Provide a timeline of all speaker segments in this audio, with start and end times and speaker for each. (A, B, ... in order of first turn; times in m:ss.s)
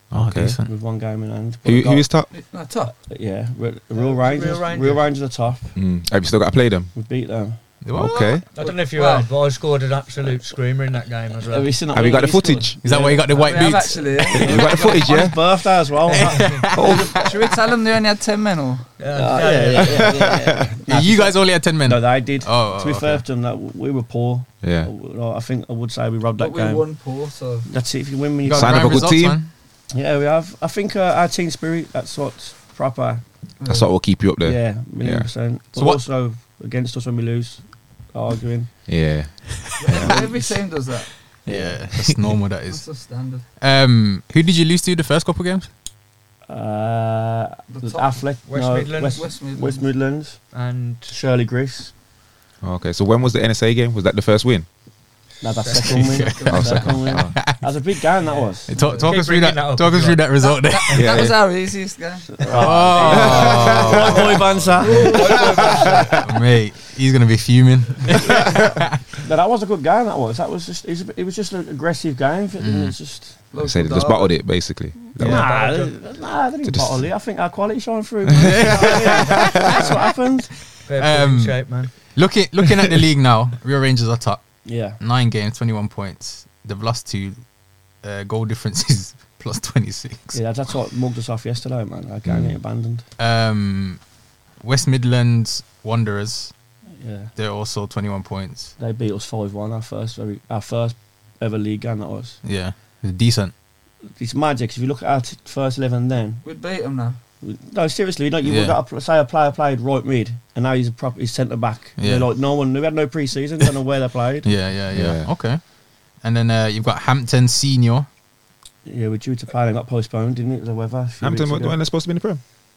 0:00.1-0:00.6 A
0:00.1-0:00.7 B
0:00.6-0:02.1 C
0:01.6-0:02.3 A
0:02.3-0:03.0 D
0:03.1-0:05.7 C
0:04.0-0:05.2 E
0:05.8-0:06.9 A
0:07.0-0:07.6 C
0:07.8-0:08.4 B
0:07.9-0:08.5 A
0:08.3-0:09.3 D
0:08.5-0:11.8 E
0:11.5-0:17.3 C
0:11.9-0:12.8 A
0:12.8-0:14.1 B
0:13.4-0:15.0 D
0:14.3-0:15.4 A
0:16.1-0:17.1 B
0:16.3-0:16.6 E
0:16.7-0:17.3 A
0:17.2-0:18.9 D
0:19.0-0:20.4 E
0:19.1-0:26.9 C
0:19.9-0:20.7 A
0:20.9-0:23.2 B
0:24.6-0:24.9 A
0:26.4-0:27.7 D
0:27.7-0:29.3 C
0:28.4-0:29.5 B
0:28.5-0:29.4 A
0:29.9-0:33.2 C
0:33.6-0:34.0 D
0:33.6-0:35.3 A
0:34.4-0:38.7 C
0:35.8-0:36.0 B
0:38.9-0:40.2 A
0:39.8-0:41.4 D
0:40.0-0:40.6 C
0:41.4-0:42.3 C
0:41.5-0:42.9 B
0:42.7-0:43.4 D
0:43.6-0:45.7 B
0:46.5-0:51.9 C
0:47.7-0:48.4 D
0:48.5-0:49.4 E
0:49.1-0:49.8 D
0:50.5-0:51.2 E
0:52.6-0:54.7 A
0:55.4-0:58.7 C
0:55.5-0:56.3 E
0:55.8-0:57.6 B
0:56.2-0:56.9 D
0:56.5-0:57.4 A
0:58.3-1:00.4 E
0:58.7-1:01.2 B
0:58.7-0:59.1 D
1:00.4-1:04.2 D
1:00.9-1:01.4 A
1:02.4-1:06.0 C
1:02.5-1:04.6 B
1:03.0-1:06.1 A
1:04.8-1:05.9 D
1:04.8-1:06.2 E
1:06.2-1:08.9 B
1:08.3-1:08.6 C
1:08.3-1:08.6 A
1:09.1-1:13.4 C
1:12.6-1:13.0 B
1:13.5-1:14.6 D
1:13.6-1:15.5 A
1:15.2-1:20.7 C
1:15.2-1:16.0 E
1:16.6-1:17.1 A
1:18.4-1:19.3 A
1:18.4-1:19.4 B
1:20.8-1:21.9 E
1:21.0-1:27.5 B
1:24.6-1:25.0 C
1:28.0-1:30.4 B
1:30.3-1:33.1 C
1:32.2-1:32.6 A
1:33.2-1:34.0 B
1:34.6-1:36.5 B
1:37.0-1:37.3 C
1:37.4-1:38.7 B
1:38.8-1:42.4 C
1:42.4-1:43.5 B
1:44.2-1:46.4 C
1:46.4-1:47.2 D
1:47.4-1:54.6 C
1:48.4-1:48.8 B
1:52.0-1:52.3 B
1:54.4-1:58.1 B
1:54.9-1:55.3 A
1:58.8-2:01.8 C
2:01.2-2:02.4 A